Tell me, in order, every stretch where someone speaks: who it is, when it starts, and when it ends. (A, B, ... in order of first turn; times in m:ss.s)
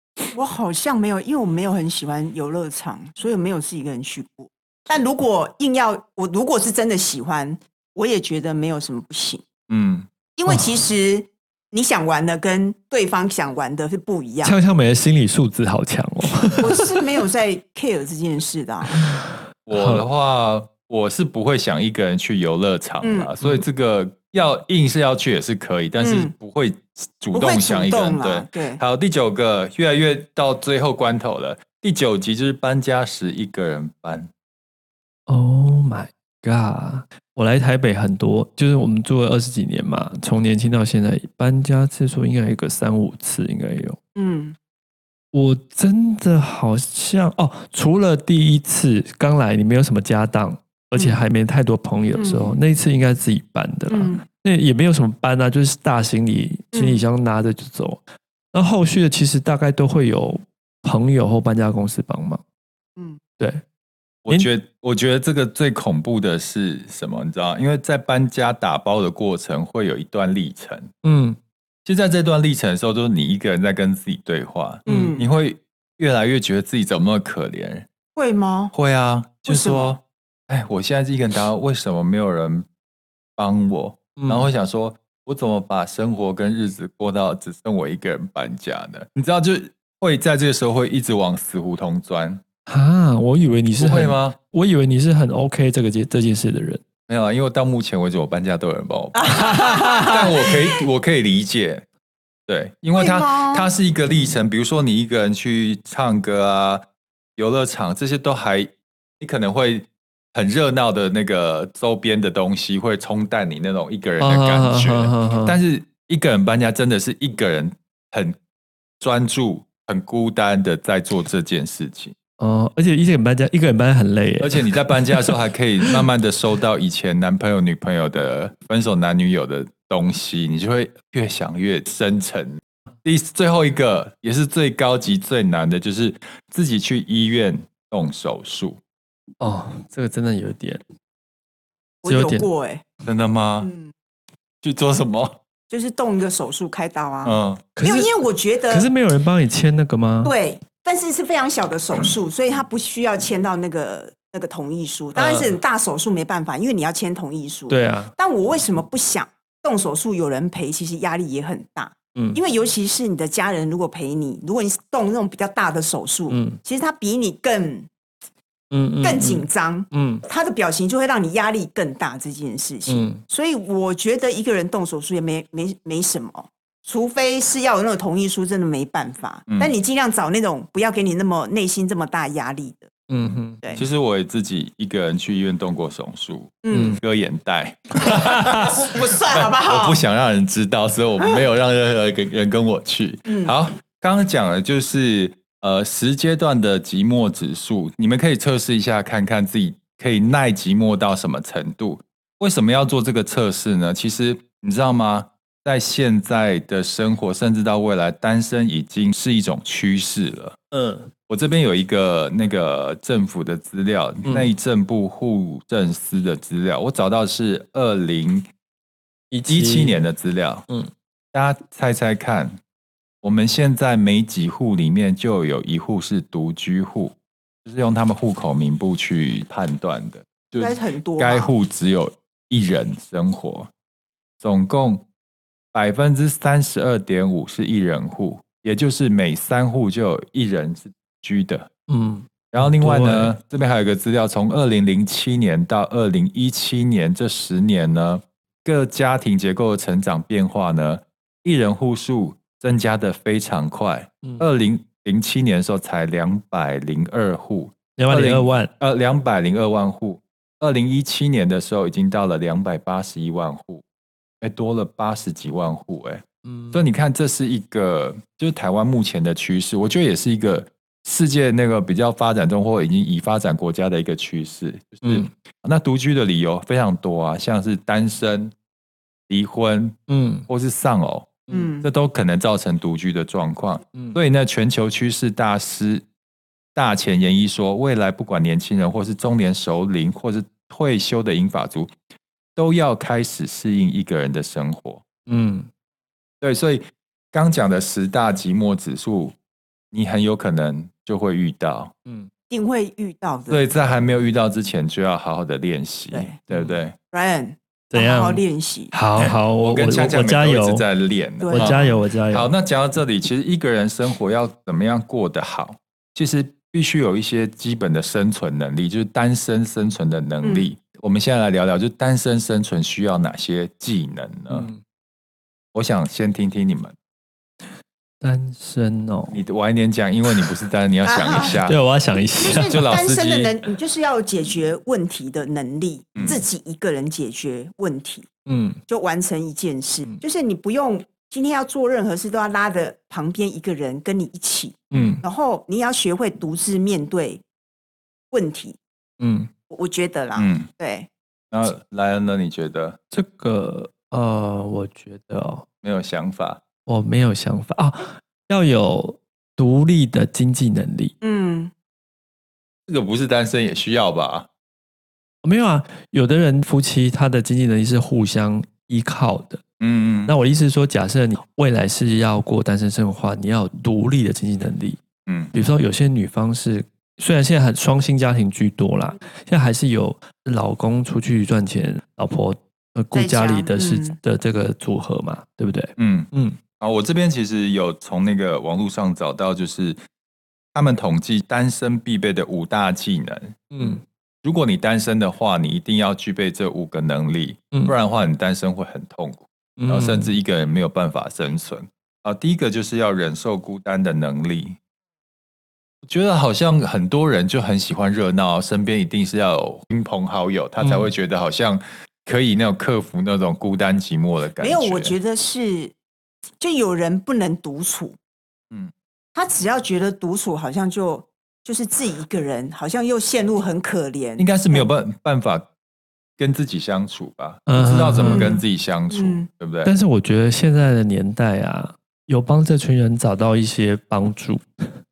0:00.3-0:09.4 A
0:09.7-0:10.1 B
0:10.4-0:14.6 A
0:14.4-0:16.9 C
0:16.6-0:19.0 A
0:18.9-0:20.1 C
0:19.7-0:34.3 B
0:23.0-0:23.3 A
0:26.0-0:26.3 A
0:27.3-0:28.8 A
0:35.3-0:44.0 C
0:44.2-0:44.6 A
0:45.3-1:02.4 C
0:51.0-0:51.2 A
0:52.2-0:52.5 A
0:53.9-0:54.2 A
0:56.7-0:57.0 A
1:03.4-1:03.6 C
1:04.2-1:10.9 B
1:11.0-1:11.4 C
1:11.8-1:17.9 B
1:14.9-1:15.3 A
1:14.9-1:15.2 C
1:18.2-1:18.7 A
1:18.7-1:22.7 B
1:19.5-1:19.9 A
1:23.4-1:32.4 B
1:24.2-1:24.5 C
1:32.7-1:36.8 C
1:33.8-1:34.4 B
1:37.1-1:41.8 B
1:39.2-1:40.6 A
1:39.3-1:40.2 C
1:42.5-1:46.8 B
1:43.0-1:43.7 A
1:47.4-1:58.4 B
1:54.2-1:55.6 C
1:59.0-2:02.2 B
2:02.4-2:06.0 C
2:04.4-2:18.8 B
2:19.4-2:20.8 C
2:22.0-2:22.8 A
2:22.0-2:22.5 C
2:23.0-2:23.7 B
2:23.6-2:23.9 A
2:24.6-2:25.4 B
2:25.7-2:28.9 A
2:27.2-2:27.7 B
2:27.8-2:28.1 C
2:28.7-2:30.3 C
2:30.2-2:47.9 A
2:35.2-2:35.6 C
2:37.7-2:38.1 C
2:42.2-2:42.4 C
2:46.3-2:46.6 C
2:48.7-2:50.2 C
2:49.0-3:02.9 A
2:52.9-2:53.2 C
3:03.1-3:03.6 C
3:03.8-3:30.6 B
3:06.6-3:07.0 A
3:06.7-3:07.0 C
3:08.0-3:08.8 C
3:08.7-3:10.0 A
3:13.3-3:13.5 A
3:30.7-3:31.1 C
3:31.3-3:38.5 B
3:34.2-3:34.5 C
3:39.3-3:40.0 C
3:39.5-3:40.7 B
3:41.3-3:42.6 B
3:43.2-3:53.7 B
3:50.6-3:51.5 A
3:54.4-3:55.0 B
3:55.7-4:01.7 B
4:01.9-4:03.4 C
4:02.5-4:23.8 B
4:18.0-4:18.7 C
4:24.4-4:38.5 B
4:26.4-4:26.8 C
4:35.0-4:35.3 C
4:39.3-4:46.0 B
4:40.1-4:40.5 C
4:41.5-4:41.9 A
4:46.8-4:51.9 B
4:52.6-4:55.0 B
4:55.3-4:55.7 C
4:56.4-4:59.4 B
4:59.9-5:01.9 B
5:02.5-5:03.7 A
5:03.5-5:07.0 B
5:06.1-5:06.4 A
5:06.5-5:06.8 C
5:07.1-5:08.9 A
5:07.9-5:10.8 C
5:09.2-5:24.7 B
5:11.4-5:11.8 A
5:11.5-5:12.5 C
5:20.4-5:20.7 A
5:24.5-5:24.8 C
5:25.7-5:26.9 B
5:28.2-5:29.4 C
5:29.3-5:31.8 B
5:31.0-5:31.6 A
5:31.6-5:32.8 C
5:32.4-5:38.3 A
5:32.7-5:33.5 B
5:36.2-5:36.4 B
5:38.5-5:38.8 C
5:38.9-5:47.4 A
5:44.9-5:45.2 C
5:44.9-5:45.2 B
5:48.3-5:48.8 A
5:49.2-5:49.5 C
5:49.7-5:51.1 A
5:50.4-5:50.7 B
5:51.5-5:53.0 B
5:53.1-5:55.7 C
5:55.8-5:56.6 B
5:56.9-6:01.1 C
6:01.2-6:01.7 A
6:02.9-6:04.5 B
6:05.4-6:09.6 C
6:09.8-6:10.3 B
6:10.3-6:15.0 C
6:15.3-6:15.5 B
6:15.5-6:26.6 C
6:23.1-6:24.2 A
6:26.0-6:30.0 B
6:30.7-6:44.8 B
6:33.7-6:34.0 C
6:39.8-6:40.3 C
6:46.0-6:55.1 B
6:50.8-6:51.1 C
6:54.6-6:56.0 A
6:56.6-6:58.2 A
6:59.4-7:04.9 A
7:04.4-7:05.7 B
7:06.4-7:09.9 B
7:07.7-7:08.5 C
7:08.2-7:09.5 A
7:09.8-7:14.6 C